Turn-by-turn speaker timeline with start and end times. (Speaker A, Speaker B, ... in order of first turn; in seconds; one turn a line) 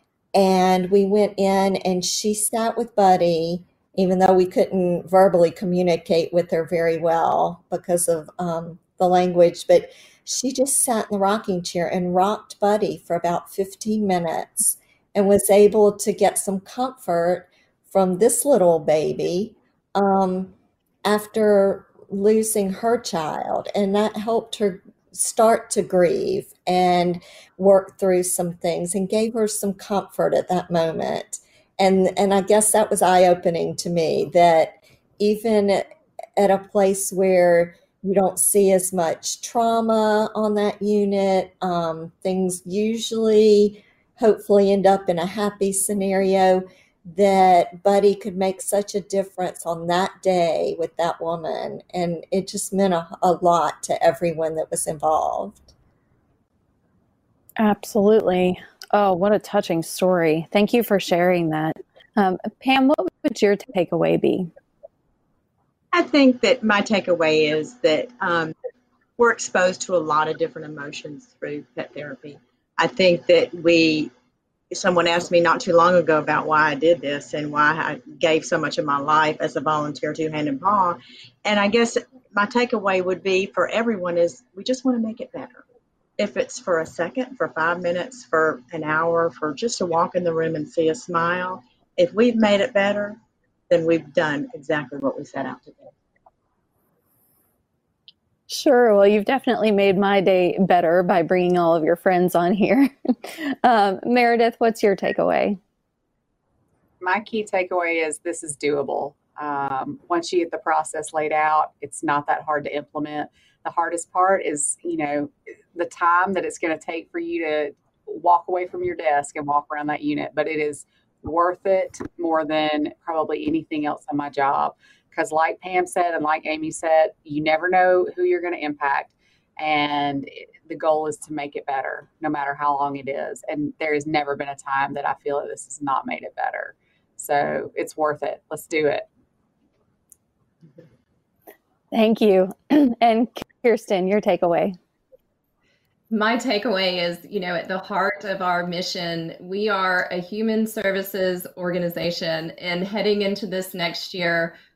Speaker A: 0.3-20.5
Speaker A: 21.1-35.8
Speaker A: 36.4-55.7
Speaker B: 57.6-64.5
Speaker C: 65.9-68.5
Speaker C: 69.2-74.1
Speaker C: 74.7-85.6
Speaker C: 86.2-93.2
Speaker C: 93.7-95.9
Speaker B: 98.5-105.6
Speaker D: 107.0-139.1
Speaker B: 141.9-144.8
Speaker E: 146.1-154.6